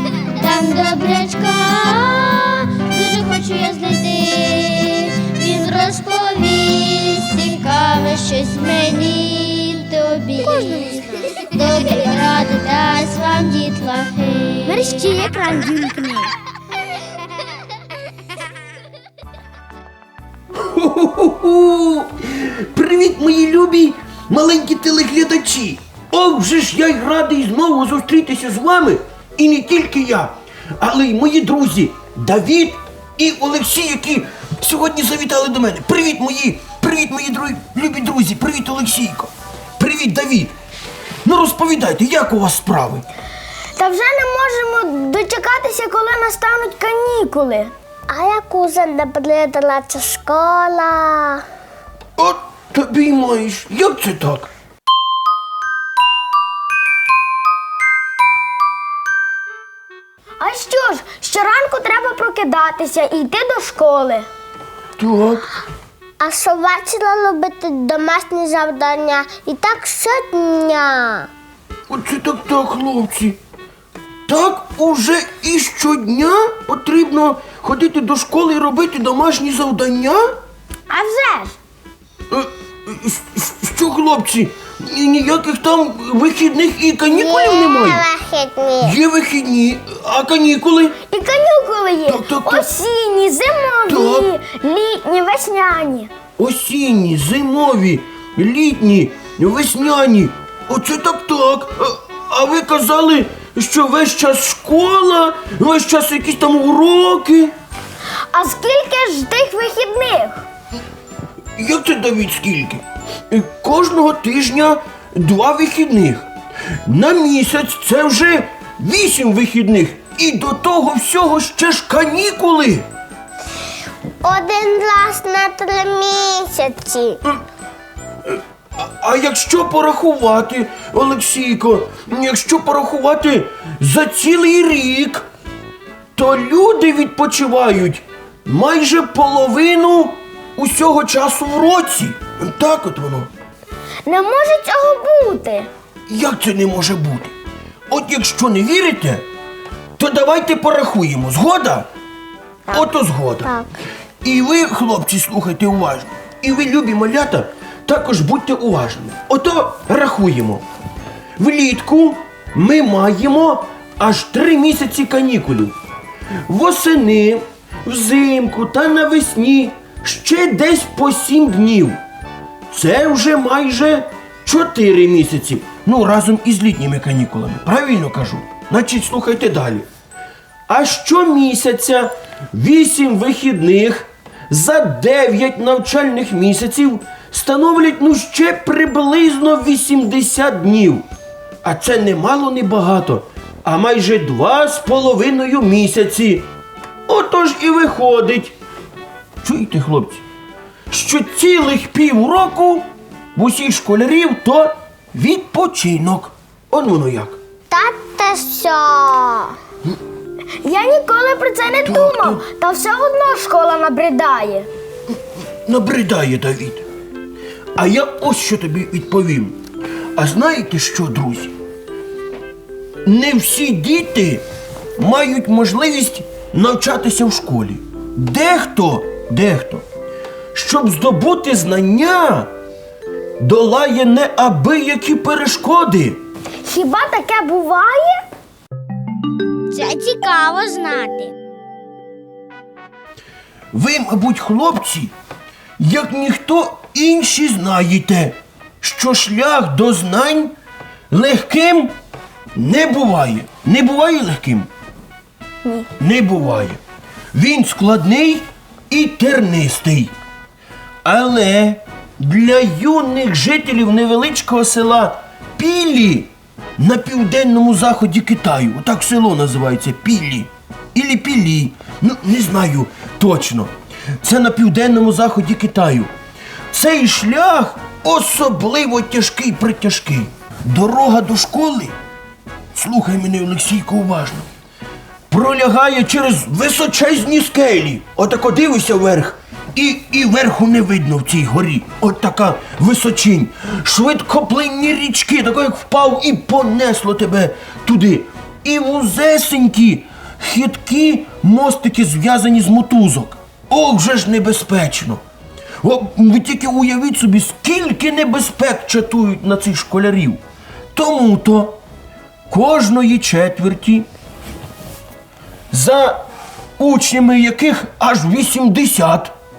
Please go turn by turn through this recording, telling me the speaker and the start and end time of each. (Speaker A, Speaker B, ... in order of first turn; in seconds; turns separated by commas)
Speaker A: 0.2-16.3, Speaker B: 20.5-40.5, Speaker B: 41.2-43.0, Speaker C: 43.7-51.5, Speaker B: 52.2-54.5, Speaker C: 60.4-64.3, Speaker B: 65.0-65.5, Speaker C: 66.2-71.3, Speaker B: 71.9-73.4, Speaker B: 74.3-80.2, Speaker C: 80.9-81.5, Speaker B: 82.3-88.1, Speaker C: 87.1-89.0, Speaker B: 88.8-91.0, Speaker C: 91.0-96.1, Speaker B: 92.0-92.7, Speaker B: 93.9-94.3, Speaker B: 96.4-107.5, Speaker C: 108.3-110.4, Speaker B: 111.6-116.3, Speaker B: 116.9-122.9, Speaker C: 124.2-127.2, Speaker B: 128.3-135.2, Speaker B: 136.2-143.3, Speaker C: 144.1-145.7, Speaker B: 146.1-147.3, Speaker B: 147.9-149.3, Speaker B: 150.0-151.9, Speaker B: 152.7-153.5, Speaker B: 154.2-160.6, Speaker B: 161.4-165.8, Speaker B: 166.5-172.0, Speaker B: 172.7-179.9, Speaker B: 180.7-191.1, Speaker B: 191.6-196.5, Speaker B: 197.1-198.5, Speaker B: 199.4-200.2, Speaker B: 200.9-207.4, Speaker C: 207.7-209.6, Speaker C: 210.6-214.7, Speaker B: 211.8-212.5, Speaker B: 215.7-216.8, Speaker B: 217.8-219.6, Speaker B: 220.2-221.5, Speaker B: 223.0-224.4, Speaker B: 225.0-229.8, Speaker B: 230.5-232.5, Speaker B: 233.4-236.2, Speaker C: 236.6-238.2, Speaker A: 239.7-241.3, Speaker B: 243.7-245.1, Speaker B: 245.8-250.5, Speaker B: 251.1-251.9, Speaker B: 252.6-254.7, Speaker B: 256.0-256.8, Speaker B: 257.3-260.1, Speaker B: 261.0-276.1, Speaker B: 276.7-281.9, Speaker B: 282.7-284.5, Speaker B: 285.3-305.2, Speaker B: 305.8-310.4, Speaker B: 310.9-311.8, Speaker B: 312.5-314.1, Speaker B: 315.7-316.2, Speaker B: 316.8-319.3